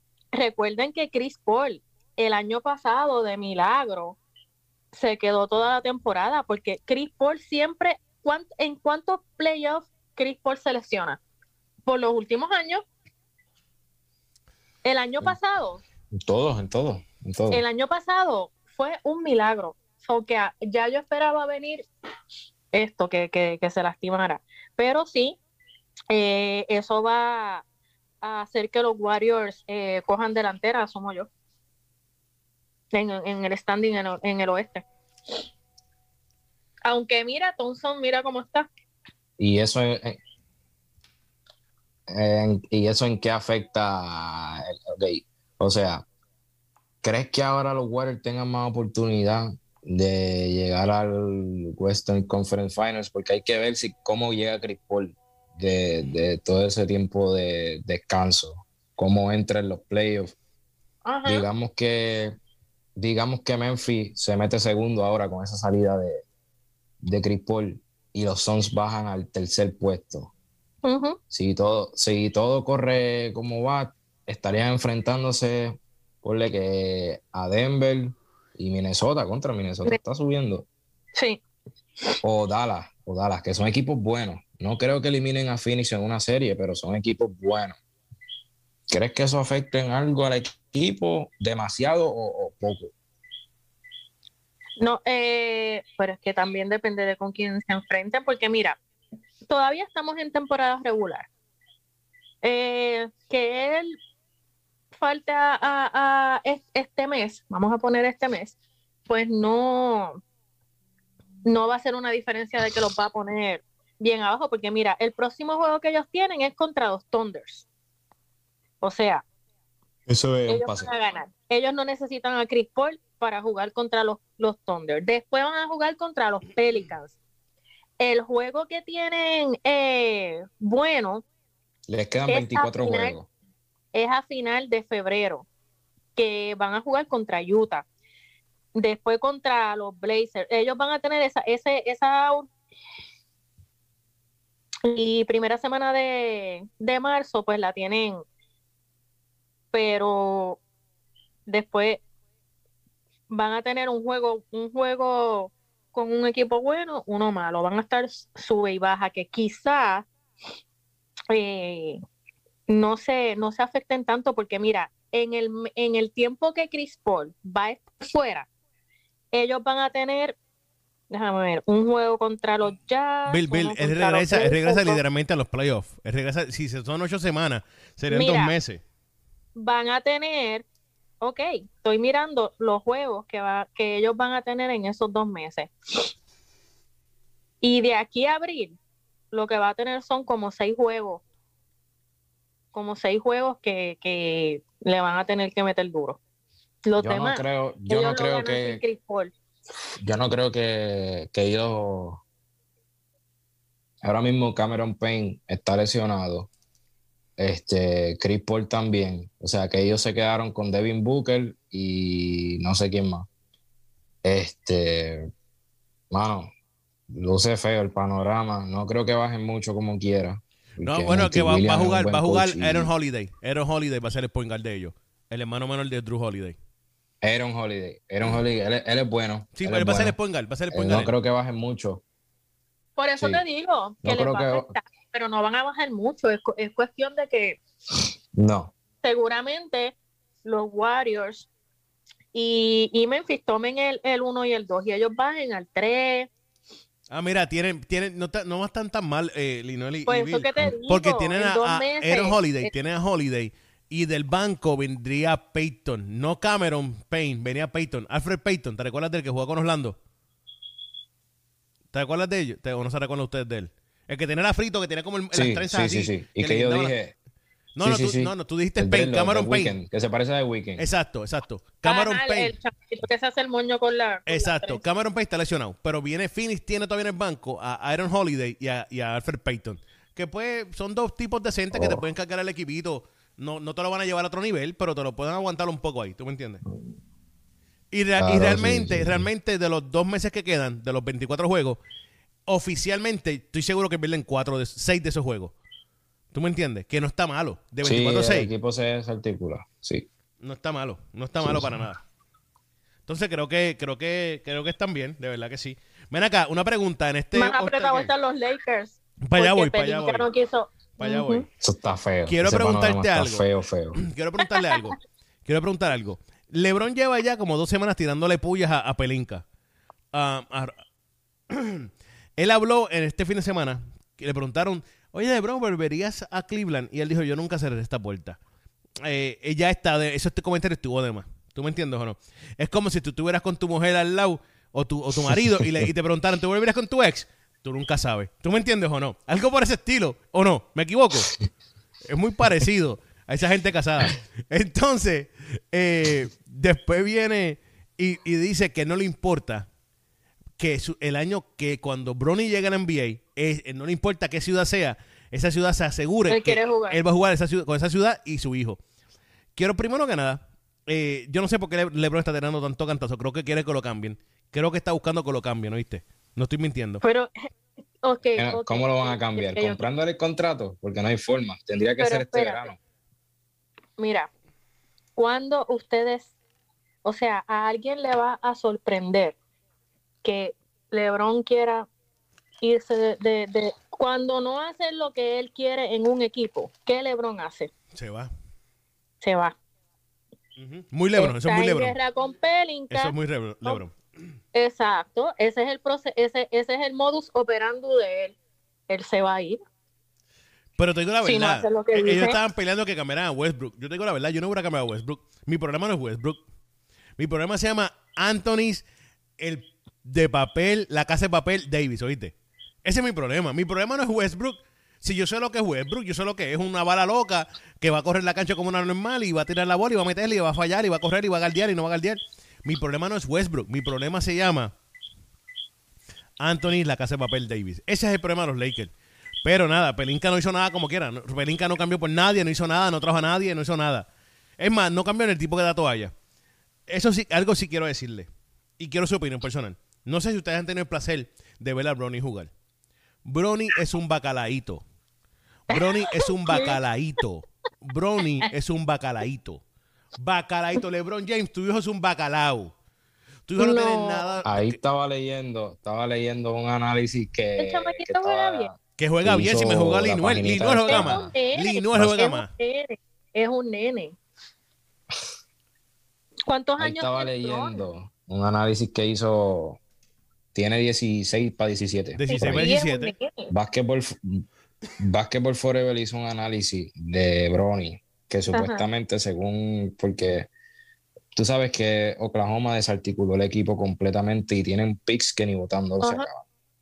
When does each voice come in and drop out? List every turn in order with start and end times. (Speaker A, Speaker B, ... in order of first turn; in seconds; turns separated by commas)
Speaker A: 0.3-4.2, Speaker A: 4.9-11.2, Speaker A: 11.8-12.8, Speaker A: 14.8-15.8, Speaker B: 16.2-17.6, Speaker A: 17.5-21.9, Speaker A: 22.7-25.4, Speaker A: 26.1-27.6, Speaker A: 28.2-31.3, Speaker A: 32.9-34.9, Speaker A: 36.8-38.7, Speaker B: 39.4-40.2, Speaker B: 42.1-46.0, Speaker B: 47.0-60.3, Speaker A: 61.0-61.5, Speaker B: 61.2-62.3, Speaker B: 63.0-66.2, Speaker B: 67.0-70.3, Speaker A: 70.8-71.2, Speaker B: 71.3-80.7, Speaker A: 81.2-81.4, Speaker B: 82.2-87.8, Speaker B: 88.9-92.9, Speaker A: 94.8-98.8, Speaker A: 99.5-101.3, Speaker A: 102.4-104.0, Speaker A: 104.9-108.5, Speaker A: 109.1-110.2, Speaker A: 111.4-117.7, Speaker A: 118.8-119.2, Speaker B: 120.1-120.9, Speaker A: 120.5-127.2, Speaker A: 128.0-131.2, Speaker B: 131.9-133.3, Speaker A: 132.3-133.2, Speaker A: 133.9-135.5, Speaker A: 136.2-137.9, Speaker A: 138.7-142.5, Speaker A: 144.8-148.2, Speaker A: 149.7-150.6, Speaker A: 151.5-152.0, Speaker A: 153.3-160.1, Speaker A: 161.3-162.0, Speaker A: 162.7-168.5, Speaker A: 169.3-170.4, Speaker A: 171.1-175.0, Speaker C: 173.3-178.8, Speaker A: 178.1-178.5, Speaker A: 179.6-180.7, Speaker A: 181.2-185.7, Speaker A: 187.6-188.8, Speaker A: 189.3-191.2, Speaker A: 192.7-196.2, Speaker A: 196.8-199.3, Speaker B: 197.0-198.8, Speaker B: 200.0-202.2, Speaker B: 204.0-206.5, Speaker B: 207.4-213.3, Speaker B: 214.2-215.3, Speaker B: 216.1-216.5, Speaker B: 217.1-222.9, Speaker C: 220.8-226.6, Speaker B: 227.2-230.1, Speaker C: 229.6-231.1, Speaker B: 230.7-232.0, Speaker A: 233.0-237.6, Speaker B: 234.0-234.7, Speaker B: 238.3-238.7, Speaker A: 239.0-241.5, Speaker A: 242.3-246.3, Speaker C: 247.1-260.0, Speaker A: 250.1-252.7, Speaker C: 261.9-266.9, Speaker B: 265.3-267.1, Speaker C: 267.8-269.8, Speaker B: 267.8-270.8, Speaker C: 270.8-272.5, Speaker A: 271.8-274.8, Speaker C: 274.3-286.6, Speaker B: 281.7-282.0, Speaker C: 287.9-291.8, Speaker B: 288.2-289.3, Speaker C: 292.5-295.5, Speaker C: 296.3-298.5, Speaker B: 297.8-300.1, Speaker C: 300.4-301.9, Speaker B: 301.4-301.9, Speaker C: 303.1-308.1, Speaker A: 307.3-311.4, Speaker C: 309.2-310.3, Speaker C: 311.0-311.4, Speaker B: 311.6-314.0, Speaker C: 312.3-319.4, Speaker A: 314.5-314.8, Speaker C: 320.1-320.8, Speaker C: 321.5-328.4, Speaker C: 329.0-341.3, Speaker B: 335.2-335.9, Speaker C: 342.1-349.6, Speaker C: 350.6-358.8, Speaker A: 356.3-357.0, Speaker C: 359.6-367.0, Speaker A: 367.0-367.5, Speaker A: 368.0-369.9, Speaker B: 368.4-372.8, Speaker A: 372.0-372.7, Speaker A: 374.0-374.3, Speaker A: 375.1-376.3, Speaker A: 377.0-379.4, Speaker A: 380.2-381.9, Speaker A: 382.6-387.7, Speaker C: 387.9-388.3, Speaker A: 389.2-389.6, Speaker C: 390.6-391.9, Speaker A: 391.1-393.8, Speaker C: 392.9-393.9, Speaker A: 394.5-398.4, Speaker A: 398.9-399.6, Speaker C: 400.8-406.4, Speaker A: 401.2-402.4, Speaker C: 407.2-408.8, Speaker C: 409.4-424.7, Speaker C: 426.4-428.9, Speaker C: 429.4-434.1, Speaker C: 434.6-436.1, Speaker C: 436.9-438.3, Speaker C: 438.8-442.5, Speaker C: 443.2-444.8, Speaker C: 445.7-449.6, Speaker A: 445.7-446.8, Speaker C: 450.2-452.7, Speaker C: 453.5-454.8, Speaker A: 453.6-454.4, Speaker B: 454.4-461.3, Speaker A: 457.6-458.7, Speaker C: 459.0-462.5, Speaker A: 460.9-464.2, Speaker A: 466.5-467.9, Speaker B: 466.8-469.8, Speaker B: 470.5-472.7, Speaker C: 472.1-473.1, Speaker A: 472.3-473.5, Speaker B: 473.5-474.4, Speaker B: 475.0-480.5, Speaker A: 478.5-478.9, Speaker B: 481.3-486.4, Speaker A: 486.0-486.3